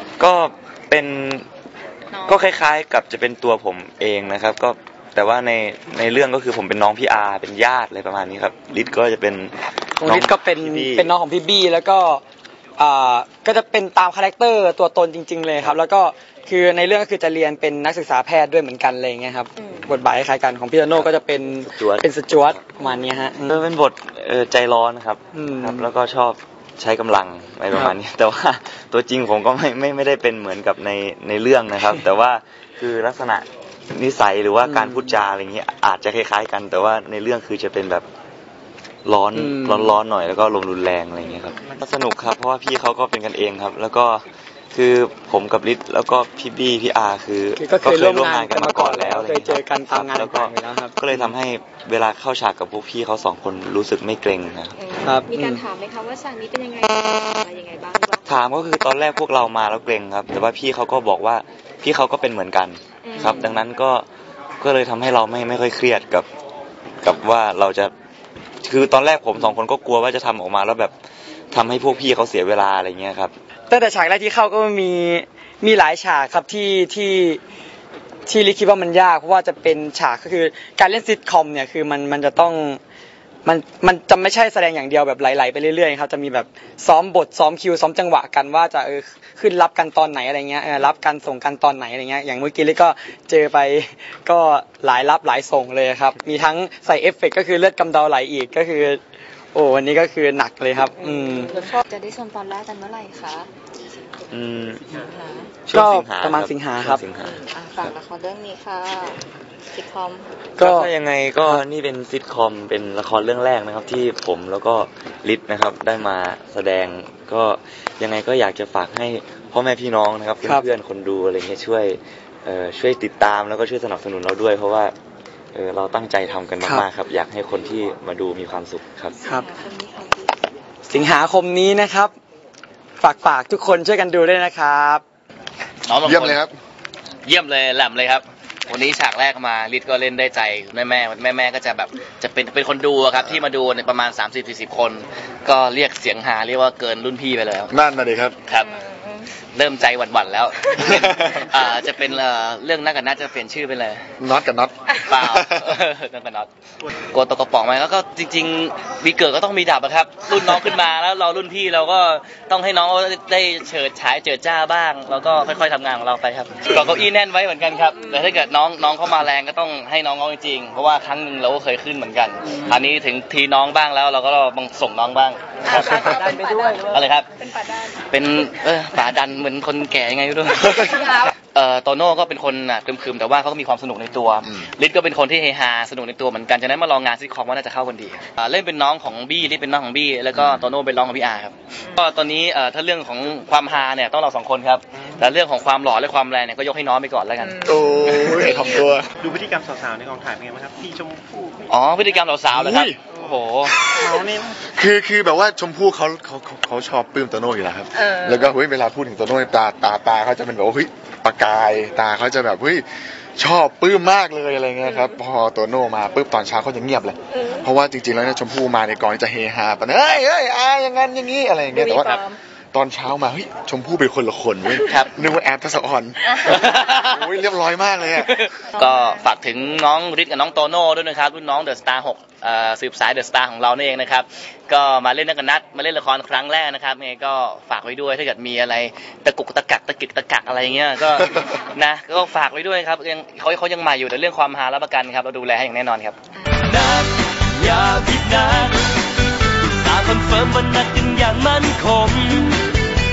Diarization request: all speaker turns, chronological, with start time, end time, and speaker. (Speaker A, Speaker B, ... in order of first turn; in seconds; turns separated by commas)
Speaker A: 0.2-1.5, Speaker B: 2.1-2.5, Speaker A: 2.2-11.1, Speaker C: 10.0-12.2, Speaker C: 12.8-23.6, Speaker B: 19.6-19.8, Speaker A: 20.9-22.7, Speaker A: 23.4-38.1, Speaker C: 25.3-25.9, Speaker C: 34.6-35.1, Speaker A: 39.0-54.8, Speaker C: 39.3-40.0, Speaker C: 47.6-51.3, Speaker B: 54.8-58.3, Speaker C: 55.0-55.6, Speaker A: 58.3-64.1, Speaker B: 63.0-63.6, Speaker A: 64.6-66.3, Speaker A: 67.0-67.9, Speaker A: 68.6-70.9, Speaker A: 71.5-73.3, Speaker C: 73.7-77.4, Speaker C: 78.3-82.8, Speaker C: 83.5-99.0, Speaker C: 99.5-101.7, Speaker B: 101.4-103.5, Speaker A: 104.3-105.1, Speaker B: 104.9-105.5, Speaker A: 105.7-107.4, Speaker C: 105.7-107.0, Speaker B: 107.2-110.3, Speaker C: 110.6-110.9, Speaker A: 110.6-125.0, Speaker A: 125.5-129.2, Speaker B: 129.2-130.4, Speaker C: 129.2-129.5, Speaker C: 130.9-132.1, Speaker C: 133.0-135.0, Speaker D: 135.9-136.4, Speaker E: 136.0-136.6, Speaker D: 137.3-147.7, Speaker E: 147.7-148.4, Speaker D: 148.5-148.7, Speaker B: 148.5-149.3, Speaker D: 149.4-154.1, Speaker E: 150.9-151.5, Speaker E: 154.2-155.8, Speaker D: 155.1-156.5, Speaker D: 157.1-176.2, Speaker D: 176.9-177.3, Speaker D: 178.1-198.3, Speaker E: 197.6-199.1, Speaker F: 199.2-202.1, Speaker D: 201.7-203.8, Speaker E: 202.5-203.0, Speaker F: 203.1-203.4, Speaker E: 203.8-212.9, Speaker F: 204.0-204.6, Speaker E: 213.4-222.2, Speaker E: 222.7-228.4, Speaker D: 224.9-225.1, Speaker D: 226.5-227.1, Speaker D: 228.3-246.2, Speaker G: 246.6-248.9, Speaker G: 249.6-252.7